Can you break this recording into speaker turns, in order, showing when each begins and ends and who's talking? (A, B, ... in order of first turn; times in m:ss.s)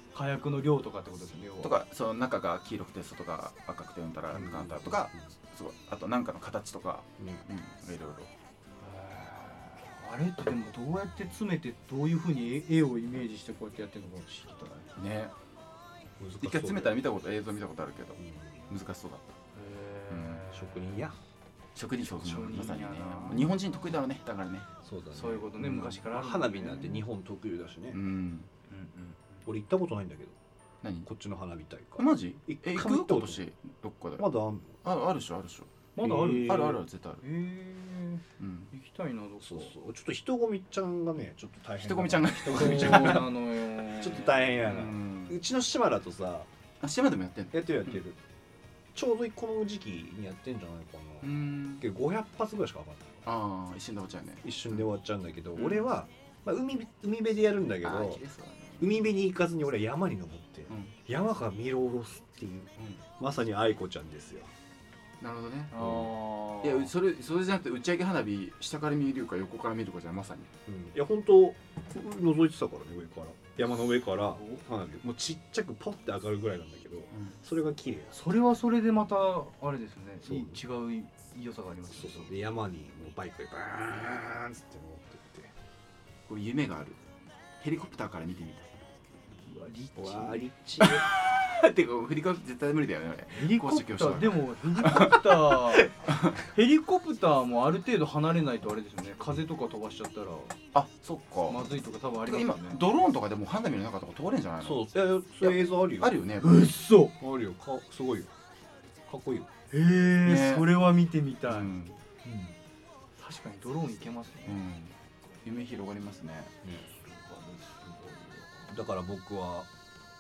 0:00.1-0:01.8 A
0:01.6-0:08.3 B
0:04.3-0:05.3 C
0:07.2-0:07.4 C
0:08.8-0:14.9 A
0:15.0-0:15.3 B
0:16.2-0:17.0 C
0:16.4-0:19.4 B
0:18.2-0:18.7 C
0:19.6-0:21.0 A
0:20.1-0:20.5 B
0:20.5-0:21.2 C
0:21.8-0:24.7 B
0:22.0-0:23.5 A
0:24.8-0:28.0 C
0:25.1-0:27.0 A
0:25.6-0:25.9 B
0:27.9-0:28.5 B
0:28.7-0:29.4 A
0:29.4-0:30.4 C
0:30.8-0:31.1 B
0:31.0-0:33.5 C
0:32.0-0:34.3 B
0:34.2-0:34.8 C
0:34.8-0:35.7 B
0:36.0-0:39.7 A
0:36.0-0:36.8 C
0:36.3-0:37.2 B
0:38.4-0:38.7 B
0:39.4-0:46.5 C
0:41.8-0:43.3 B
0:42.5-0:45.3 A
0:46.8-0:48.0 B
0:47.5-0:48.2 C
0:48.9-0:53.2 C
0:51.2-0:51.9 B
0:53.2-0:54.9 B
0:54.4-0:58.2 C
0:55.6-0:55.9 B
0:57.8-0:59.0 B
0:58.8-1:04.5 C
1:05.2-1:06.0 B
1:05.7-1:06.9 A
1:05.8-1:06.1 C
1:06.6-1:10.5 B
1:10.7-1:18.2 C
1:18.1-1:22.3 A
1:20.2-1:20.6 C
1:21.9-1:25.5 C
1:26.3-1:27.0 B
1:27.6-1:28.9 B
1:29.5-1:30.5 A
1:30.0-1:31.1 C
1:30.8-1:36.4 B
1:33.3-1:40.6 A
1:40.7-1:41.7 B
1:41.5-1:42.8 A
1:42.3-1:44.9 B
1:44.6-1:46.2 C
1:45.4-1:46.7 B
1:46.4-1:47.1 A
1:47.2-1:48.3 C
1:49.1-1:49.5 C
1:49.7-1:51.7 A
1:50.3-1:50.7 B
1:51.5-1:52.0 B
1:52.2-1:52.6 C
1:53.2-1:54.6 A
1:54.5-1:54.9 B
1:55.4-1:56.5 B
1:56.6-1:56.9 C
1:57.0-1:58.6 A
1:58.7-1:59.7 C